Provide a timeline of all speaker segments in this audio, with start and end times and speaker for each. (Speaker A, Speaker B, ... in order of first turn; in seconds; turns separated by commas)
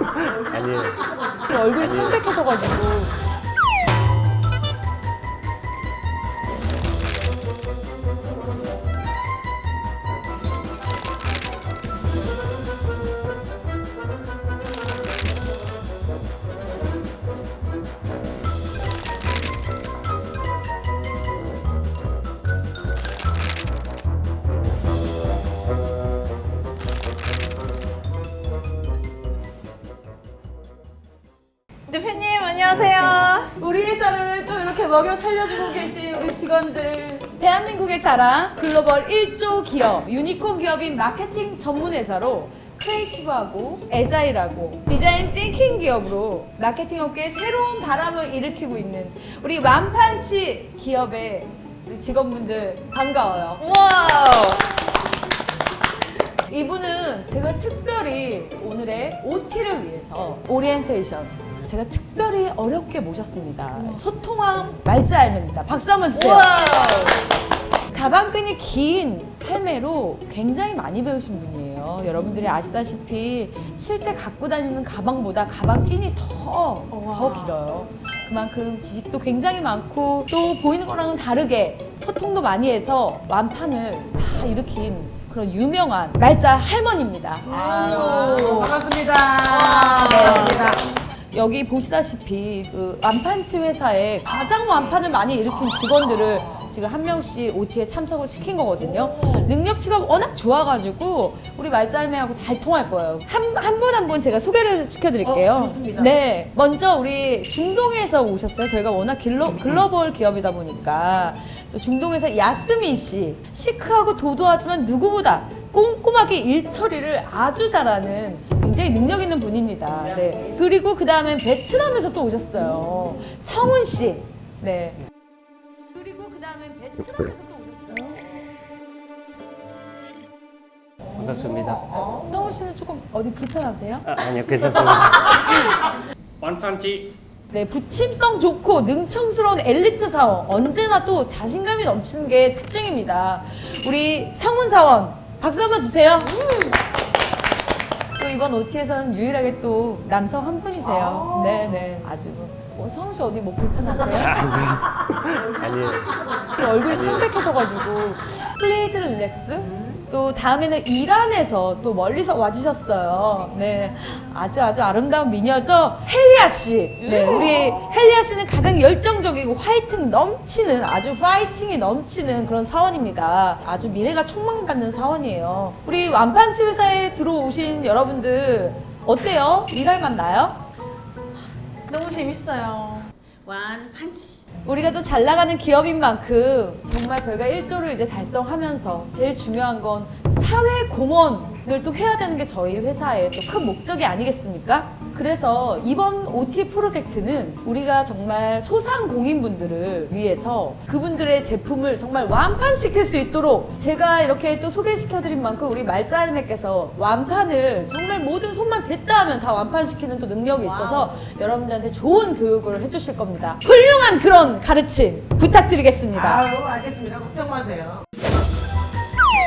Speaker A: 0.2-0.5, Speaker B: 0.5-1.0, Speaker C: 1.4-3.2, Speaker B: 1.8-2.3, Speaker D: 31.9-33.5, Speaker C: 33.6-53.6, Speaker D: 53.6-54.6, Speaker C: 56.5-66.6, Speaker D: 63.8-64.0, Speaker D: 66.2-67.2, Speaker C: 67.9-87.5, Speaker D: 76.9-77.6, Speaker D: 87.5-88.8, Speaker A: 87.5-90.9, Speaker D: 89.4-90.8, Speaker C: 90.0-125.0, Speaker A: 95.5-96.6, Speaker A: 98.8-99.5, Speaker A: 105.2-106.2, Speaker A: 120.0-120.7, Speaker C: 125.9-128.2, Speaker A: 128.0-128.3, Speaker A: 131.0-132.6, Speaker B: 131.2-131.9, Speaker C: 132.3-134.1, Speaker B: 134.1-135.7, Speaker B: 136.4-137.2, Speaker C: 137.5-146.3, Speaker D: 146.3-146.7, Speaker C: 148.2-154.4, Speaker A: 150.8-151.8, Speaker B: 154.2-156.1, Speaker C: 156.5-180.6, Speaker B: 156.8-157.2, Speaker D: 167.0-167.8, Speaker D: 181.9-184.4, Speaker C: 184.7-216.4, Speaker D: 210.6-211.2, Speaker A: 216.1-218.1